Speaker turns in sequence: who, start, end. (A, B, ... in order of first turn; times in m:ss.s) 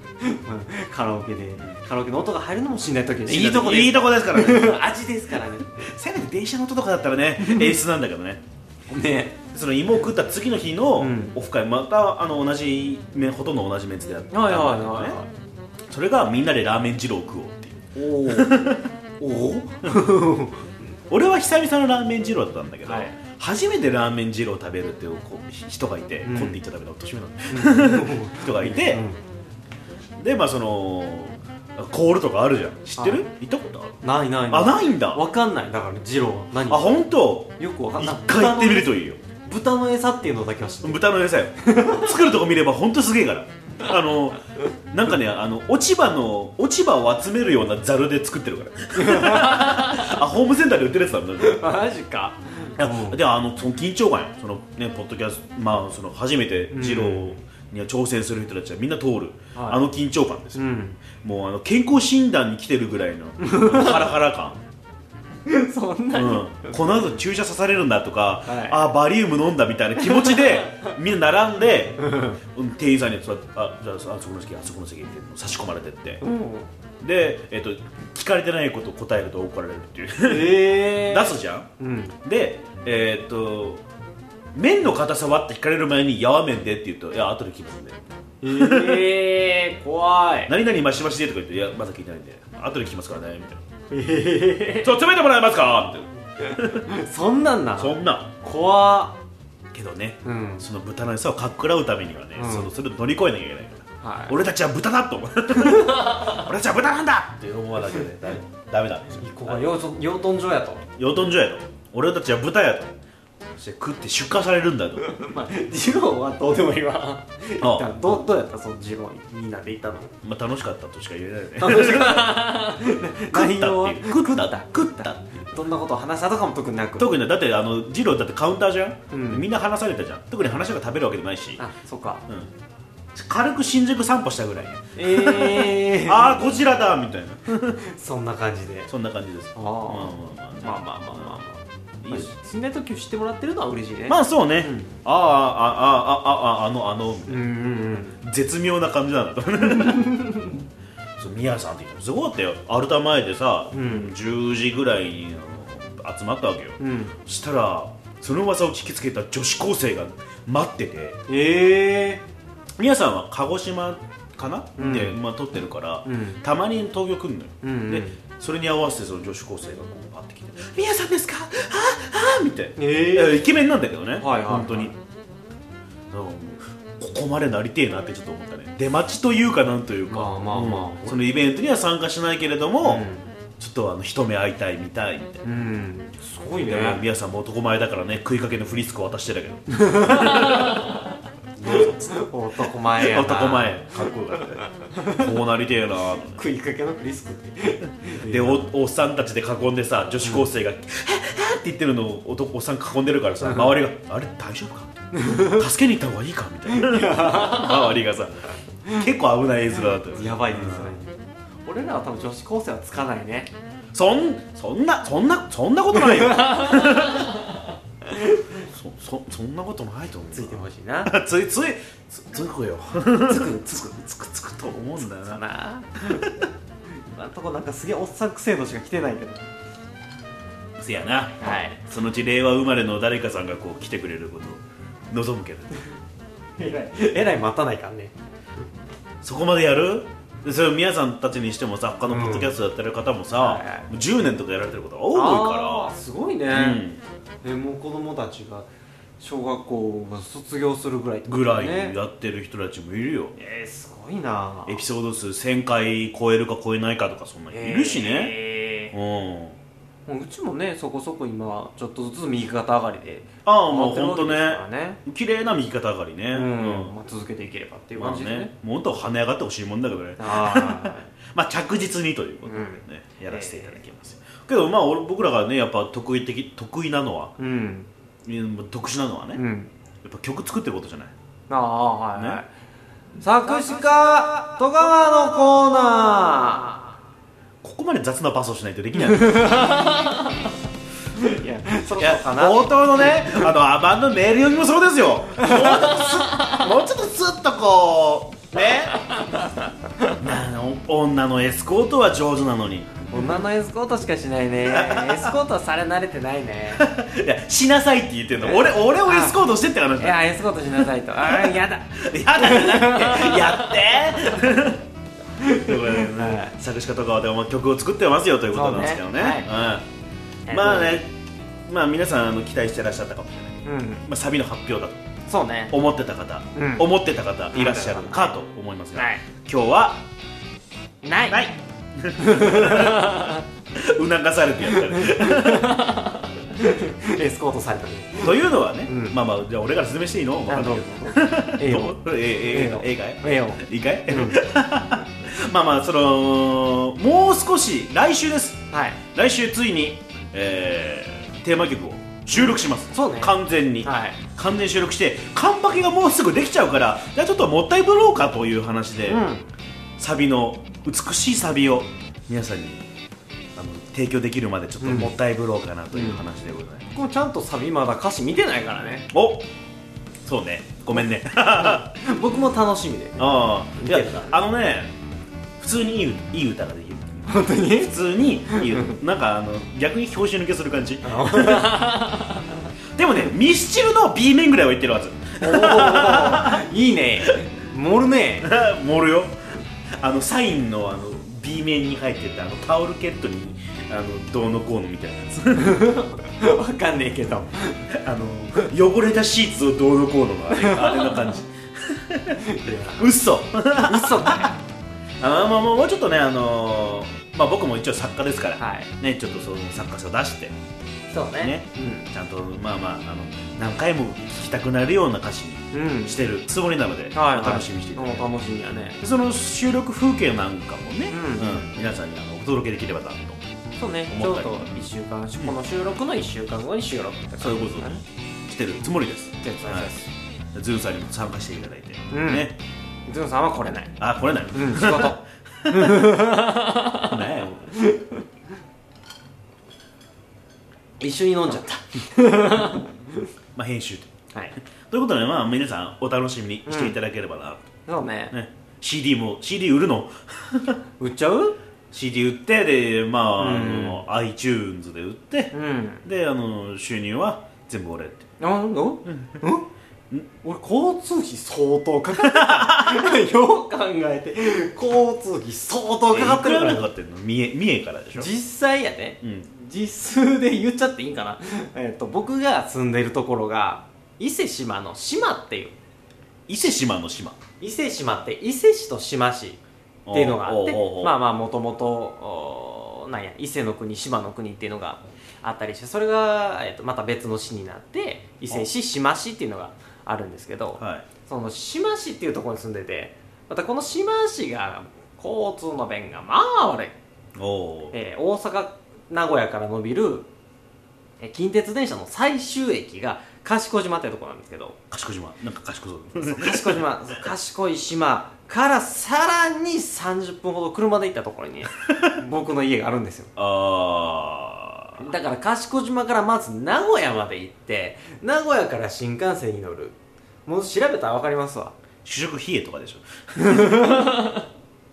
0:00.2-0:05.9 A
0:03.3-0:04.9 B
0:05.8-0:08.4 B
0:07.4-0:07.8 A
0:08.9-0:09.4 A
0:09.5-0:15.2 B
0:11.0-0:11.4 A
0:14.3-0:15.3 A
0:15.9-0:18.9 B
0:18.0-0:20.6 A
0:21.1-0:29.0 B
0:22.9-0:23.2 A
0:26.2-0:26.6 A
0:27.5-0:29.2 A
0:30.2-0:35.2 B
0:33.0-0:33.3 A
0:34.0-0:36.9 A
0:36.7-0:39.2 B
0:37.6-0:38.9 A
0:39.4-0:41.0 A
0:40.8-0:51.7 B
0:41.6-0:42.2 A
0:49.0-0:50.2 A
0:51.4-0:53.2 A
0:52.8-1:04.6 B
0:56.7-0:57.4 A
0:59.6-0:59.8 A
1:00.6-1:01.0 A
1:03.4-1:04.1 A
1:05.4-1:07.2 A
1:06.1-1:16.2 B
1:08.5-1:08.8 A
1:10.0-1:10.9 A
1:12.0-1:12.4 A
1:16.2-1:16.7 A
1:17.0-1:21.7 B
1:20.2-1:22.2 A
1:22.2-1:23.8 B
1:24.6-1:29.1 B
1:28.4-1:30.5 A
1:30.5-1:33.6 B
1:33.9-1:35.0 A
1:34.8-1:36.9 B
1:36.5-1:39.2 A
1:37.8-1:38.3 B
1:39.7-1:49.7 B
1:40.2-1:40.6 A
1:42.4-1:42.7 A
1:44.0-1:44.4 A
1:45.6-1:46.4 A
1:49.2-1:50.8 A
1:51.0-1:53.0 B
1:53.6-1:55.2 B
1:55.0-2:00.2 A
1:57.6-1:58.2 B
2:00.2-2:05.4 B
2:01.6-2:07.1 A
2:07.0-2:11.6 B
2:09.1-2:09.5 A
2:11.6-2:12.2 A
2:13.2-2:17.8 B
2:15.0-2:16.6 A
2:17.8-2:18.9 A
2:18.9-2:21.4 B
2:19.6-2:24.9 A
2:22.0-2:22.3 B
2:24.1-2:27.4 B
2:27.3-2:28.2 A
2:28.2-2:30.4 B
2:29.6-2:30.6 A
2:31.2-2:41.2 B
2:33.7-2:34.1 A
2:36.8-2:37.1 A
2:41.3-2:42.2 A
2:42.8-2:55.0 B
2:44.8-2:45.2 A
2:46.0-2:46.4 A
2:47.6-2:48.2 A
2:52.8-2:53.5 A
2:54.2-2:54.9 A
2:56.1-3:03.0 B
3:00.1-3:01.3 A
3:02.8-3:03.3 A
3:03.6-3:05.5 B
3:05.4-3:07.0 A
3:06.6-3:10.9 B
3:09.8-3:11.0 A
3:11.6-3:12.2 B
3:11.7-3:13.8 A
3:12.9-3:16.4 B
3:14.6-3:15.3 A
3:16.4-3:18.7 A
3:18.2-3:28.4 B
3:23.4-3:23.8 A
3:25.1-3:25.7 A
3:26.7-3:28.0 A
3:28.9-3:31.0 B
3:29.8-3:33.5 A
3:33.9-3:37.4 B
3:35.9-3:37.5 A
3:38.1-3:38.4 A
3:38.6-3:45.4 B
3:40.3-3:41.1 A
3:43.2-3:44.0 A
3:45.0-3:46.3 A
3:46.0-3:46.5 B
3:46.9-3:49.4 A
3:50.8-3:55.8 B
3:51.4-3:51.8 A
3:56.6-3:58.1 A
3:59.2-4:05.9 B
4:02.1-4:02.6 A
4:03.4-4:03.9 A
4:05.1-4:06.8 A
4:06.5-4:07.0 B
4:07.4-4:08.7 A
4:09.2-4:12.0 A
4:11.3-4:13.4 B
4:13.4-4:14.8 A
4:14.7-4:18.4 B
4:17.5-4:19.0 A
4:18.9-4:19.6 B
4:20.1-4:25.0 A
4:23.4-4:26.9 B
4:26.3-4:28.5 A
4:28.0-4:37.3 B
4:30.2-4:31.1 A
4:32.4-4:33.8 A
4:37.4-4:37.9 A
4:38.3-4:39.4 B
4:39.4-4:39.7 A
4:40.0-4:41.1 B
4:41.5-4:42.5 A
4:42.2-4:42.4 B
4:43.2-4:46.8 A
4:47.6-4:49.9 B
4:49.1-4:50.4 A
4:51.2-4:53.4 A
4:52.0-4:59.0 B
4:55.4-4:56.6 A
4:58.6-5:00.1 A
5:00.1-5:03.4 B
5:03.1-5:06.9 A
5:04.7-5:05.3 B
5:06.8-5:14.8 B
5:08.4-5:09.4 A
5:10.0-5:14.6 A
5:15.4-5:16.6 A
5:15.4-5:19.9 B
5:18.5-5:19.5 A
5:20.5-5:21.0 A
5:20.5-5:25.0 B
5:23.6-5:24.0 A
5:25.3-5:25.7 A
5:25.7-5:30.0 B
5:26.6-5:26.9 A
5:27.5-5:28.4 A
5:29.0-5:29.2 A
5:31.0-5:31.4 A
5:31.3-5:35.9 B
5:32.2-5:33.4 A
5:34.6-5:39.2 A
5:38.2-5:59.2 B
5:40.5-5:44.4 A
5:48.7-5:49.0 A
5:52.3-5:54.2 A
5:59.1-5:59.5 A
6:00.0-6:02.8 B
6:03.6-6:06.9 B
6:04.8-6:05.1 A
6:05.9-6:06.2 A
6:06.9-6:09.1 A
6:09.1-6:09.5 B
6:10.3-6:11.9 B
6:11.5-6:14.4 A
6:13.2-6:14.9 B
6:15.6-6:21.8 B
6:17.3-6:18.0 A
6:18.5-6:19.0 A
6:21.0-6:22.6 A
6:23.0-6:26.6 B
6:25.4-6:28.5 A
6:28.4-6:29.4 B
6:30.0-6:35.9 B
6:35.6-6:37.8 A
6:37.9-6:44.6 B
6:40.5-6:41.3 A
6:42.4-6:43.1 A
6:43.8-6:44.6 A
6:45.2-6:50.6 B
6:48.6-6:48.9 A
6:51.1-6:52.1 A
6:51.4-6:58.3 B
6:55.7-6:56.2 A
6:57.1-6:59.0 A
6:59.0-7:03.4 B
7:01.1-7:01.7 A
7:03.8-7:08.0 A
7:04.1-7:04.8 B
7:07.4-7:09.9 B
7:09.4-7:10.1 A
7:10.6-7:12.6 B
7:12.1-7:12.5 A
7:13.1-7:14.0 A
7:14.0-7:16.2 B
7:14.5-7:18.2 A
7:17.0-7:17.8 B
7:21.0-7:23.3 A
7:23.6-7:24.1 B
7:24.9-7:27.7 B
7:26.7-7:27.0 A
7:27.9-7:28.3 A
7:28.3-7:30.8 B
7:31.0-7:31.6 A
7:31.9-7:38.3 B
7:33.4-7:34.0 A
7:35.5-7:36.0 A
7:38.4-7:39.7 A
7:39.0-7:39.4 B
7:40.4-7:46.9 A
7:42.2-7:43.0 B
7:46.1-7:48.3 B
7:48.2-7:55.8 A
7:49.2-7:49.5 B
7:56.5-7:57.4 B
7:57.6-8:17.0 A
8:00.1-8:01.2 B
8:10.8-8:11.1 B
8:17.4-8:18.0 B
8:17.9-8:20.3 A
8:21.2-8:24.8 A
8:24.9-8:26.9 B
8:26.2-8:33.3 A
8:33.4-8:35.1 B
8:35.0-8:41.8 A
8:42.0-8:43.9 B
8:43.4-8:44.5 A